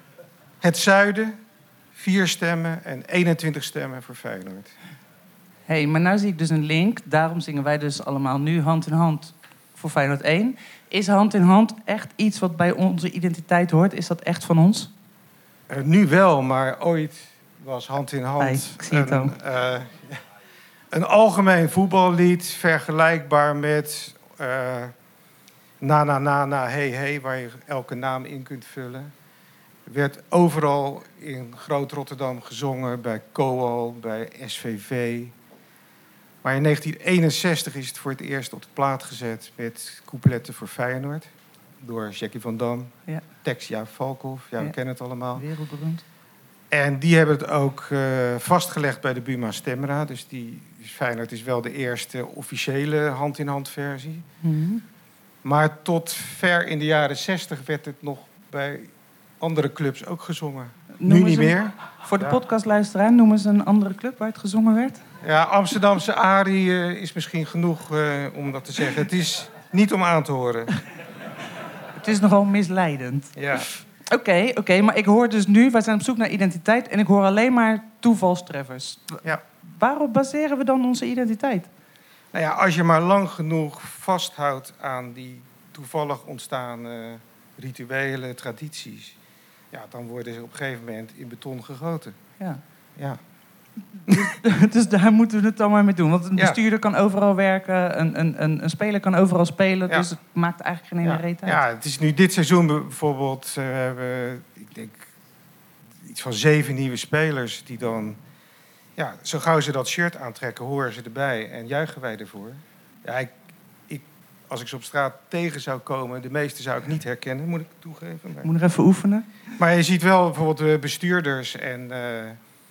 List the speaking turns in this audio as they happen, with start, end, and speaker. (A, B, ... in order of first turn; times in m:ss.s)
0:00.6-0:01.4 A
0:02.0-0:04.7 A
0:05.6-0:14.9 B
0:15.7-0:20.2 A
0:18.4-0:19.3 B
0:20.9-0:24.9 A
0:25.8-0:29.1 A
0:29.8-0:35.3 A
0:36.4-0:41.3 A
0:41.8-0:45.4 A
0:45.4-0:46.0 B
0:46.7-0:54.3 A
0:54.4-0:54.8 B
0:55.4-1:02.4 A
1:01.0-1:05.0 B
1:05.2-1:10.7 A
1:12.0-1:13.3 B
1:13.3-1:13.7 A
1:14.1-1:21.7 B
1:22.3-1:29.2 A
1:29.7-1:32.2 A
1:34.1-1:41.6 B
1:41.0-1:45.1 A
1:46.0-1:48.2 A
1:49.0-1:53.3 A
1:53.9-1:58.5 A
1:58.4-1:59.3 B
1:59.6-2:02.4 A